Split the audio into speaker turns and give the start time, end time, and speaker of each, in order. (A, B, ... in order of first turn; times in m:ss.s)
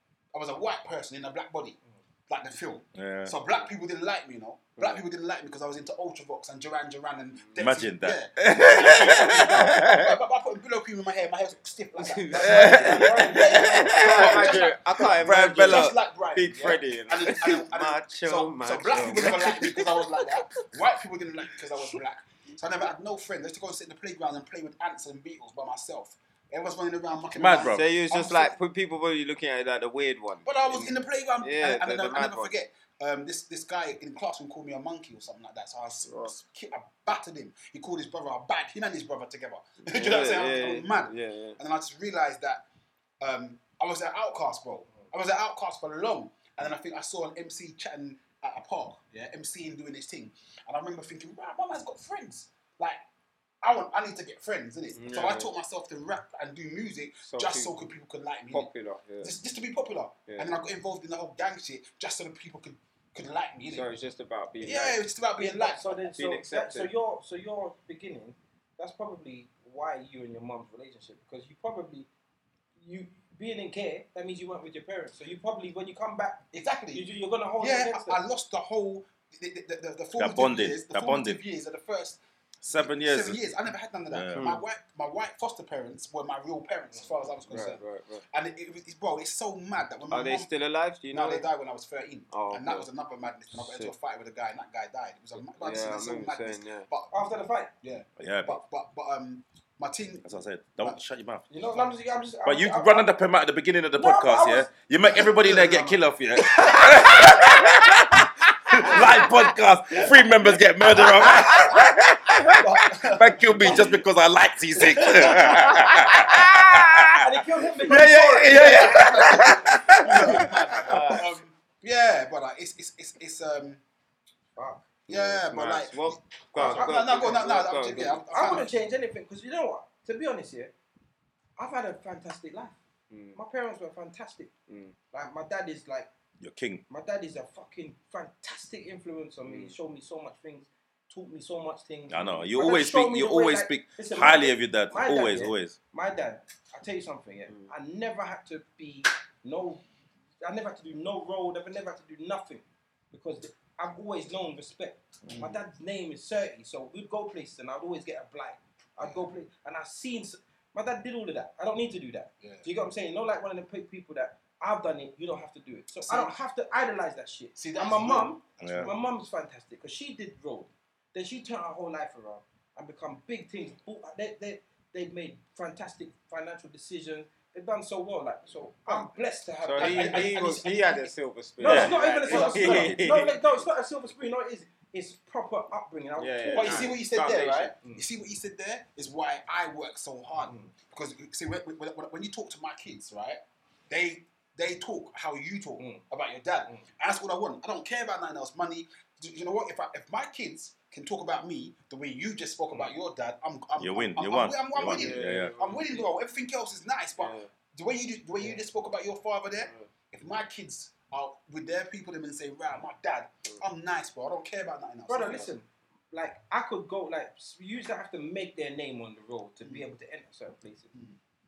0:00.3-0:01.8 A
0:02.3-0:28.6 A
0:03.0-0:03.4 B
0:04.8-0:05.0 C
0:07.6-0:10.2 B
0:12.0-0:20.7 C
0:12.3-0:14.0 D
0:12.4-0:15.9 B
0:27.4-0:27.8 B
0:27.5-0:32.5 C
0:30.4-0:42.6 A
0:36.0-0:36.4 C
0:39.8-0:41.6 C
0:43.2-0:53.0 A
0:53.6-0:58.7 A
0:55.0-0:55.5 C
0:57.3-0:57.7 C
0:58.5-0:59.3 C
0:59.2-1:03.9 A
1:03.7-1:05.0 C
1:04.6-1:06.0 A
1:05.4-1:12.1 D
1:06.1-1:06.9 C
1:12.8-1:18.2 D
1:16.5-1:30.5 A
1:20.2-1:21.4 B
1:22.7-1:23.4 B
1:24.1-1:24.6 B
1:24.3-1:24.6 C
1:27.5-1:28.2 C
1:30.1-1:31.5 C
1:31.1-1:41.0 A
1:32.3-1:32.9 C
1:33.5-1:33.9 C
1:35.6-1:36.9 C
1:37.1-1:37.7 D
1:38.2-1:38.6 B
1:40.2-1:41.4 B
1:41.5-1:43.1 D
1:41.5-1:41.9 A
1:42.4-1:57.2 B
1:44.0-1:44.7 D
1:45.0-1:46.0 A
1:46.6-1:47.4 D
1:51.2-1:51.7 A
1:52.6-1:54.0 A
1:54.8-1:55.3 A
1:54.8-1:55.8 D
1:55.4-1:57.1 C
1:57.2-1:59.5 D
1:57.8-2:01.0 B
1:58.4-2:03.8 A
2:00.0-2:00.4 D
2:00.8-2:01.3 C
2:04.6-2:04.9 D
2:05.1-2:08.7 A
2:05.1-2:08.4 C
2:06.6-2:07.0 D
2:08.3-2:10.7 D
2:11.6-2:12.8 D
2:13.1-2:13.4 C
2:13.4-2:14.5 D
2:14.7-2:15.0 C
2:15.1-2:16.1 D
2:16.4-2:16.8 B
2:16.9-2:29.8 D
2:19.4-2:19.7 C
2:22.1-2:25.8 B
2:30.4-3:06.9 D
2:35.3-2:35.6 A
2:46.0-2:46.4 A
2:47.6-2:49.0 A
2:48.6-2:48.9 B
2:59.6-3:03.4 C
2:59.8-3:00.7 A
3:01.6-3:02.0 B
3:02.2-3:03.0 A
3:06.2-3:07.7 C
3:06.5-3:35.5 A
3:10.4-3:10.7 D
3:23.8-3:25.5 B
3:24.8-3:26.1 C
3:27.2-3:27.5 C
3:35.1-3:40.9 D
3:39.6-3:39.9 A
3:40.9-3:41.2 A